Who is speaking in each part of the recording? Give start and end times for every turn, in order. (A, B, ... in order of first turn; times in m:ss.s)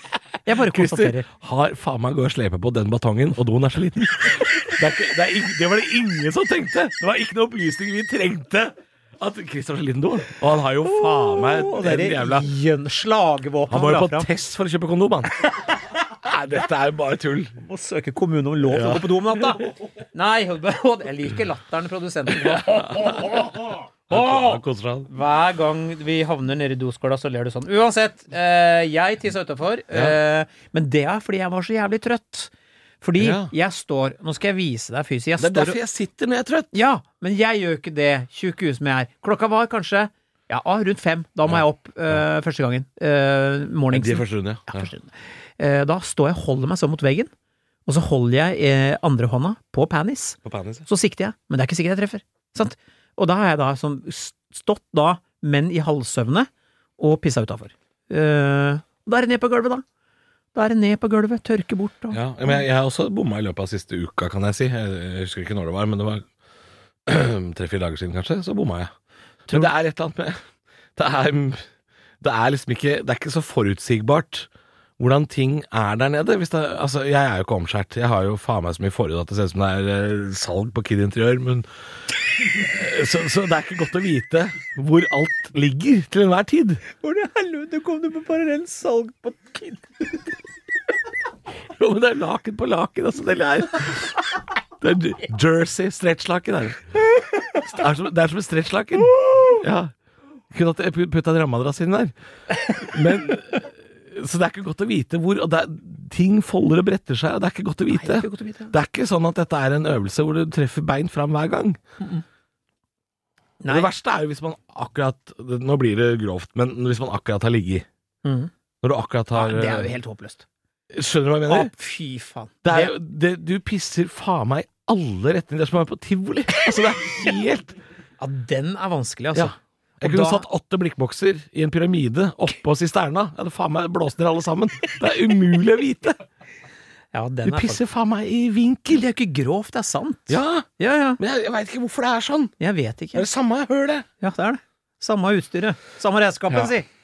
0:00.4-0:01.3 A
0:00.5-0:12.5 B
0:10.8-0:14.3 A
0:13.7-0:15.4 B
0:15.4-0:15.9 A
0:16.2-0:17.6 B
0:17.6-0:32.5 A
0:18.7-0:19.7 B
0:22.4-0:23.4 B
0:24.1-0:25.1 B
0:33.0-0:35.8 A
0:33.2-0:33.5 B
0:35.4-0:36.7 B
0:36.7-0:47.3 A
0:41.5-0:42.2 B
0:43.9-0:44.9 B
0:47.9-0:59.8 A
0:50.4-0:50.9 B
1:00.6-1:02.6 A
1:02.1-1:06.3 B
1:07.1-1:08.9 B
1:09.5-1:10.4 B
1:11.0-1:11.7 B
1:12.2-1:21.7 B
1:22.4-1:26.8 B
1:27.0-1:30.2 A
1:31.7-1:34.1 B
1:34.8-1:36.8 B
1:37.6-1:39.9 B
1:39.1-1:39.6 A
1:40.5-1:42.1 B
1:42.7-1:51.8 B
1:47.9-1:48.7 A
1:53.6-1:53.9 A
1:53.7-1:57.9 B
1:58.2-1:58.5 A
1:58.8-1:59.9 B
1:59.3-2:00.4 A
2:00.9-2:01.7 B
2:01.5-2:02.9 A
2:02.6-2:07.8 B
2:08.2-2:10.4 A
2:09.3-2:16.2 B
2:17.1-2:17.8 A
2:17.4-2:19.0 B
2:18.9-2:21.2 A
2:20.3-2:20.7 B
2:21.2-2:22.5 B
2:22.6-2:23.3 A
2:23.2-2:24.1 B
2:24.2-2:26.9 A